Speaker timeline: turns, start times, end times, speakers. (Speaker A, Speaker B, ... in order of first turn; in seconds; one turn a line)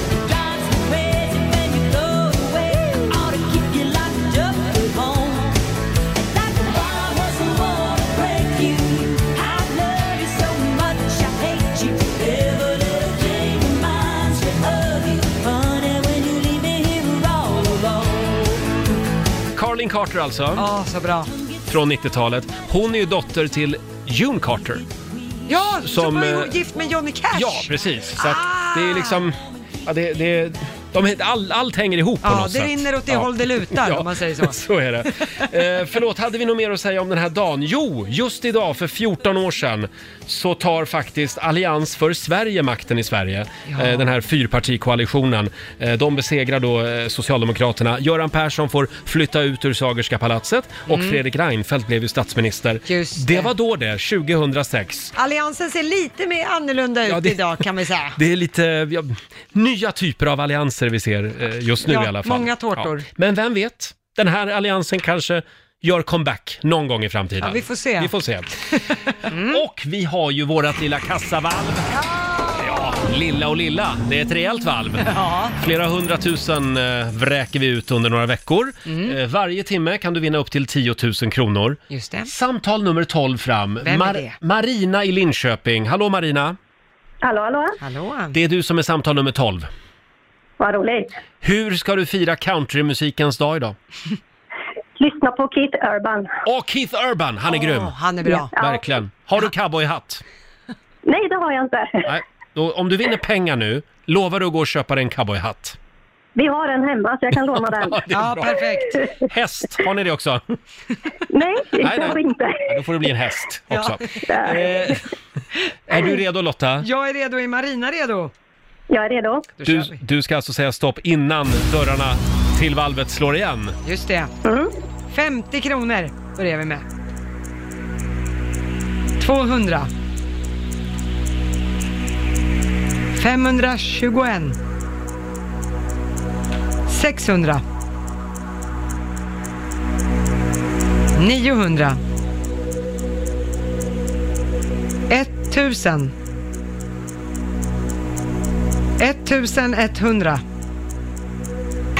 Speaker A: 0.2-5.6
Speaker A: 6.2-18.7
Speaker B: 19.6-20.7
Speaker C: 20.6-21.3
Speaker B: 21.7-24.8
Speaker C: 25.5-29.2
Speaker B: 25.8-26.5
Speaker B: 27.3-55.1
Speaker C: 32.2-34.6
Speaker C: 43.7-44.1
Speaker C: 50.9-51.2
Speaker C: 52.9-53.5
Speaker C: 55.1-58.2
Speaker B: 57.1-57.4
Speaker B: 58.2-68.5
Speaker C: 61.9-63.0
Speaker C: 67.4-68.1
Speaker C: 69.2-69.6
Speaker B: 69.3-71.9
Speaker C: 72.0-72.9
Speaker B: 72.5-86.6
Speaker C: 75.0-75.5
Speaker C: 78.9-79.2
Speaker C: 81.9-82.3
Speaker C: 83.8-84.4
Speaker D: 87.2-87.8
Speaker C: 87.8-88.3
Speaker B: 88.3-89.7
Speaker D: 90.6-91.1
Speaker B: 91.4-93.8
Speaker D: 95.0-96.3
Speaker B: 96.5-97.9
Speaker C: 97.5-98.5
Speaker B: 98.5-100.2
Speaker D: 98.6-98.8
Speaker D: 101.1-102.1
Speaker B: 102.1-105.8
Speaker D: 106.4-108.0
Speaker B: 107.5-108.6
Speaker C: 108.1-109.0
Speaker B: 109.3-110.4
Speaker D: 111.3-112.6
Speaker B: 111.8-115.0
Speaker C: 113.7-114.0
Speaker D: 114.3-115.0
Speaker B: 115.9-116.9
Speaker C: 116.8-118.3
Speaker D: 118.9-119.5
Speaker C: 119.6-120.0
Speaker B: 119.7-123.8
Speaker C: 123.8-124.3
Speaker D: 124.4-124.7
Speaker C: 125.1-126.8
Speaker C: 129.2-129.9
Speaker C: 133.1-134.6
Speaker C: 136.9-137.6
Speaker C: 141.2-142.0
Speaker C: 145.1-146.1
Speaker C: 149.0-150.4